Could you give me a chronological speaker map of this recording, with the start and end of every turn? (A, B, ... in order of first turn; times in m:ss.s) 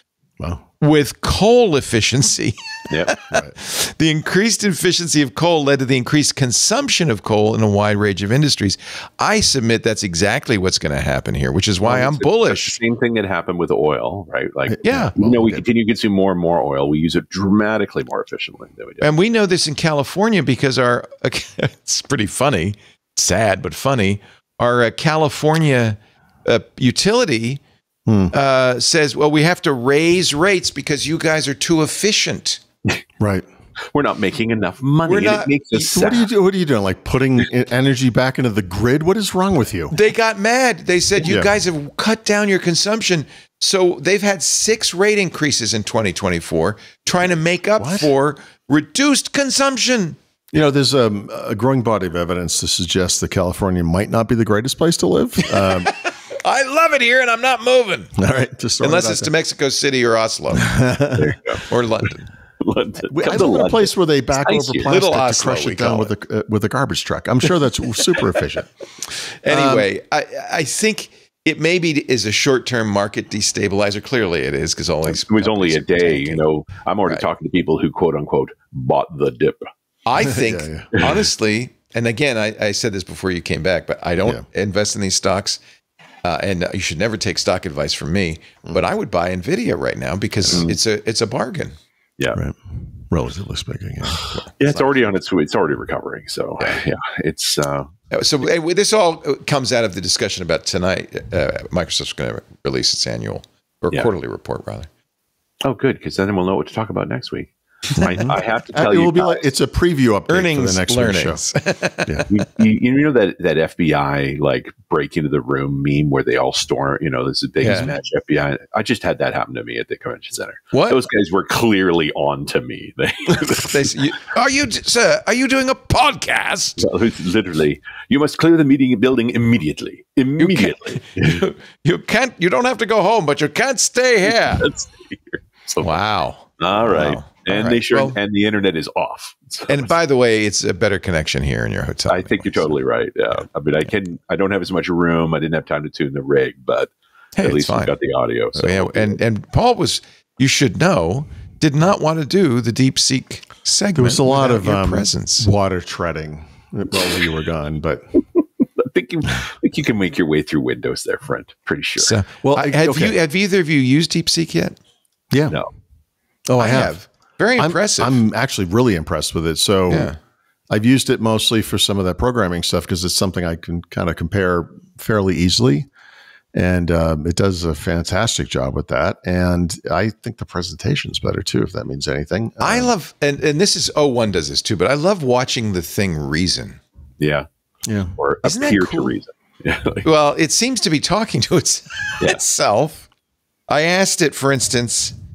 0:00.8-0:12.8 A
0:02.9-0:03.2 B
0:11.8-0:19.1 B
0:14.7-0:15.6 C
0:14.8-0:15.1 A
0:19.0-0:27.6 A
0:28.1-0:28.3 C
0:28.3-0:32.6 A
0:33.2-0:33.4 C
0:33.9-0:36.3 B
0:35.1-0:35.9 A
0:35.9-0:40.0 C
0:39.9-0:50.2 A
0:41.2-0:41.5 C
0:47.8-0:48.1 C
0:50.5-0:55.9 C
0:55.4-0:58.2 A
0:58.2-0:59.3 C
0:58.8-1:00.7 A
1:00.5-1:01.3 C
1:01.2-1:01.6 B
1:01.7-1:02.3 A
1:02.6-1:04.9 B
1:03.1-1:08.7 C
1:04.8-1:06.1 A
1:09.4-1:16.4 A
1:09.5-1:09.9 C
1:15.1-1:19.6 B
1:20.1-1:25.6 A
1:20.3-1:20.9 C
1:26.2-1:31.7 A
1:30.5-1:30.8 B
1:32.3-1:34.4 C
1:34.3-1:35.0 A
1:34.6-1:37.9 B
1:38.1-1:44.9 A
1:45.6-1:49.5 B
1:48.1-1:51.4 C
1:50.3-1:52.3 A
1:52.3-2:03.9 B
1:57.6-1:57.9 A
2:00.7-2:01.0 A
2:03.5-2:06.8 A
2:06.8-2:11.4 B
2:10.4-2:14.7 A
2:14.3-2:15.9 B
2:15.8-2:18.2 A
2:16.6-2:19.9 B
2:19.7-2:22.8 A
2:22.1-2:29.2 B
2:27.4-2:27.9 A
2:28.6-2:35.5 A
2:34.0-2:38.2 C
2:38.8-2:42.1 B
2:42.0-2:44.8 A
2:42.4-2:43.2 C
2:45.3-2:45.6 C
2:46.5-2:47.0 C
2:46.6-2:48.2 A
2:47.6-2:50.1 C
2:49.9-2:50.2 A
2:50.7-2:55.9 C
2:56.5-3:02.9 C
3:02.6-3:06.8 A
3:07.2-3:07.5 B
3:07.9-3:08.2 C
3:08.2-3:10.1 B
3:08.4-3:09.2 A
3:10.0-3:13.1 A
3:13.7-3:15.2 A